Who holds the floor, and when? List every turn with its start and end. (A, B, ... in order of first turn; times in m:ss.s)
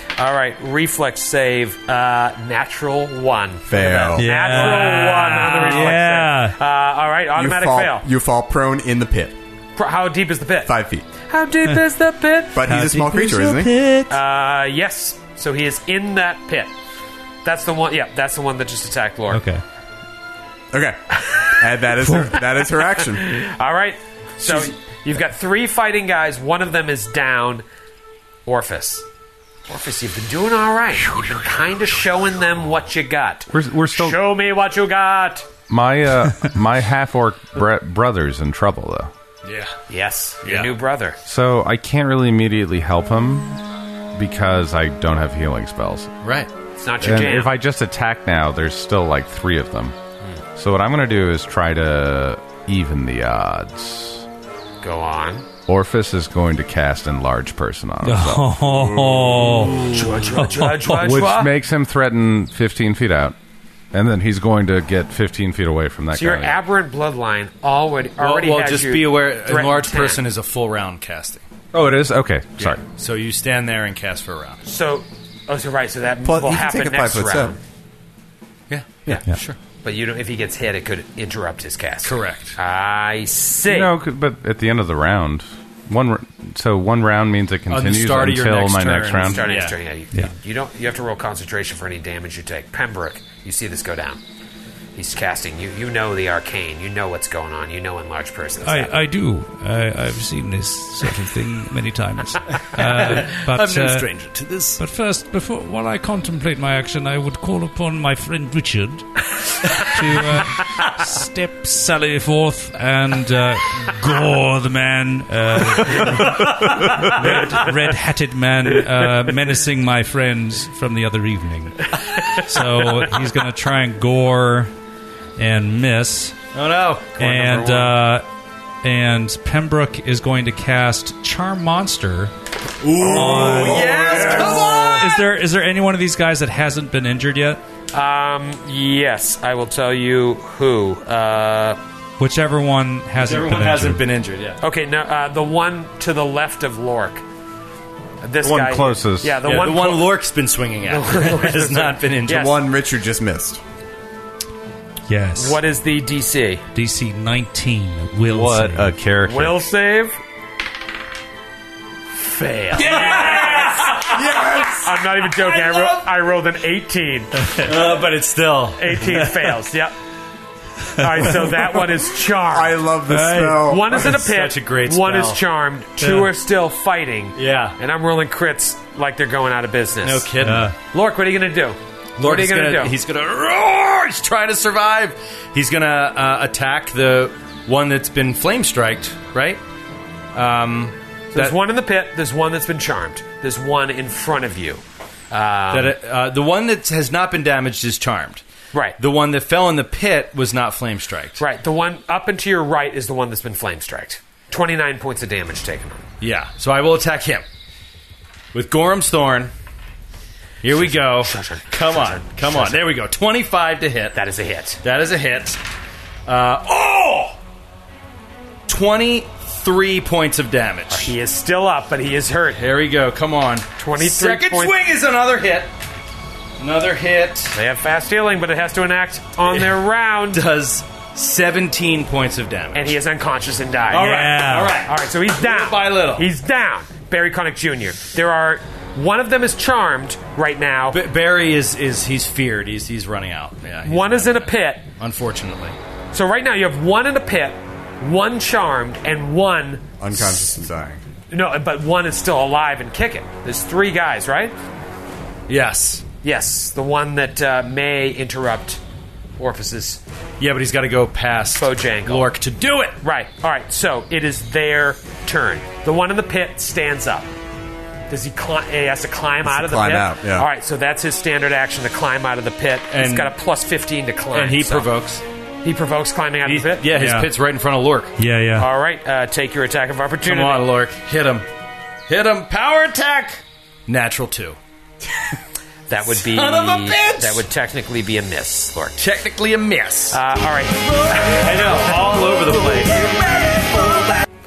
0:00.2-0:08.0 A
0:03.7-0:04.8 B
0:04.2-0:06.6 C
0:07.4-0:09.4 B
0:09.8-0:12.6 A
0:10.6-0:11.1 B
0:12.5-0:13.8 B
0:12.6-0:14.2 C
0:14.1-0:16.7 A
0:17.4-0:19.4 A
0:19.3-0:19.6 C
0:20.7-0:23.4 B
0:21.2-0:21.5 A
0:22.6-0:27.6 A
0:24.4-0:24.7 B
0:28.5-0:29.0 A
0:29.7-0:35.5 A
0:33.5-0:34.2 D
0:35.7-0:39.1 D
0:39.4-0:39.8 E
0:39.9-0:41.2 A
0:40.4-0:40.7 E
0:41.2-0:43.6 D
0:44.1-0:46.1 D
0:46.2-0:46.5 E
0:46.8-0:47.6 A
0:47.0-0:50.0 D
0:50.6-0:54.3 D
0:54.8-0:55.5 A
0:55.7-0:58.7 D
0:58.0-1:00.9 C
0:59.8-1:01.5 A
1:00.9-1:03.4 D
1:03.9-1:06.6 D
1:06.1-1:10.2 A
1:08.2-1:11.4 E
1:11.7-1:12.8 D
1:12.6-1:14.6 E
1:14.6-1:17.6 A
1:16.2-1:17.6 B
1:18.7-1:19.6 E
1:19.8-1:23.9 A
1:22.0-1:22.6 E
1:23.7-1:29.4 D
1:27.7-1:29.8 E
1:29.2-1:34.2 A
1:35.0-1:39.0 A
1:38.6-2:04.7 C
1:42.7-1:44.8 E
2:05.4-2:06.4 C
2:06.5-2:08.0 E
2:07.2-2:08.3 C
2:08.8-2:12.3 C
2:12.8-2:15.1 E
2:12.9-2:15.1 B
2:13.1-2:14.3 C
2:14.9-2:17.6 C
2:17.9-2:21.8 A
2:22.2-2:24.0 C
2:23.2-2:24.6 E
2:24.6-2:27.2 A
2:28.2-2:30.1 A
2:28.4-2:29.4 D
2:29.4-2:32.5 E
2:30.9-2:32.5 A
2:32.3-2:33.6 B
2:35.1-2:35.6 C
2:35.4-2:36.6 A
2:36.7-2:39.0 C
2:38.3-2:39.7 D
2:39.3-2:40.2 A
2:42.2-2:47.6 A
2:42.8-2:46.0 E
2:44.1-2:44.7 B
2:47.6-2:49.6 E
2:48.8-2:49.9 A
2:51.0-2:52.9 A
2:52.5-2:54.2 B
2:53.1-2:53.4 E
2:53.1-2:53.6 C
2:53.6-3:00.3 A
2:53.9-2:55.4 E
2:56.0-2:56.3 C
2:57.4-2:57.8 E
3:00.0-3:00.7 E
3:00.4-3:00.8 C
3:00.9-3:03.0 A
3:02.2-3:09.6 E
3:10.3-3:11.6 E
3:11.3-3:16.0 A
3:15.7-3:18.4 E
3:19.0-3:21.4 E
3:21.4-3:26.0 A
3:26.2-3:27.4 E
3:28.5-3:29.5 E
3:30.6-3:34.2 E
3:30.7-3:32.9 A
3:34.1-3:34.8 A
3:34.8-3:35.6 E
3:36.3-3:37.4 E
3:38.7-3:41.2 E
3:40.9-3:42.7 A
3:42.6-3:45.7 E
3:43.8-3:44.7 A
3:46.6-3:47.6 E
3:47.5-3:50.4 A
3:49.5-3:49.8 E
3:50.3-3:53.0 E
3:52.7-4:01.0 A
3:53.9-3:56.3 E
3:54.0-3:54.8 C
4:00.9-4:05.8 E
4:03.8-4:04.8 A
4:06.1-4:10.5 A
4:10.0-4:11.0 B
4:11.3-4:14.6 A
4:15.5-4:16.0 E
4:16.2-4:18.8 A
4:19.4-4:20.0 A
4:20.4-4:23.0 E
4:21.6-4:22.3 A
4:23.0-4:27.3 A
4:28.1-4:34.9 A
4:29.4-4:30.5 B
4:32.9-4:33.3 E
4:34.3-4:35.2 E
4:35.6-4:36.9 A
4:36.4-4:38.2 E
4:36.9-4:37.3 C
4:38.2-4:38.7 C
4:38.6-4:40.7 A
4:40.2-4:41.5 E
4:42.1-4:44.6 E
4:45.9-4:49.0 A
4:46.1-4:47.4 E
4:49.0-4:50.2 E
4:50.1-4:51.9 A
4:51.3-4:53.8 E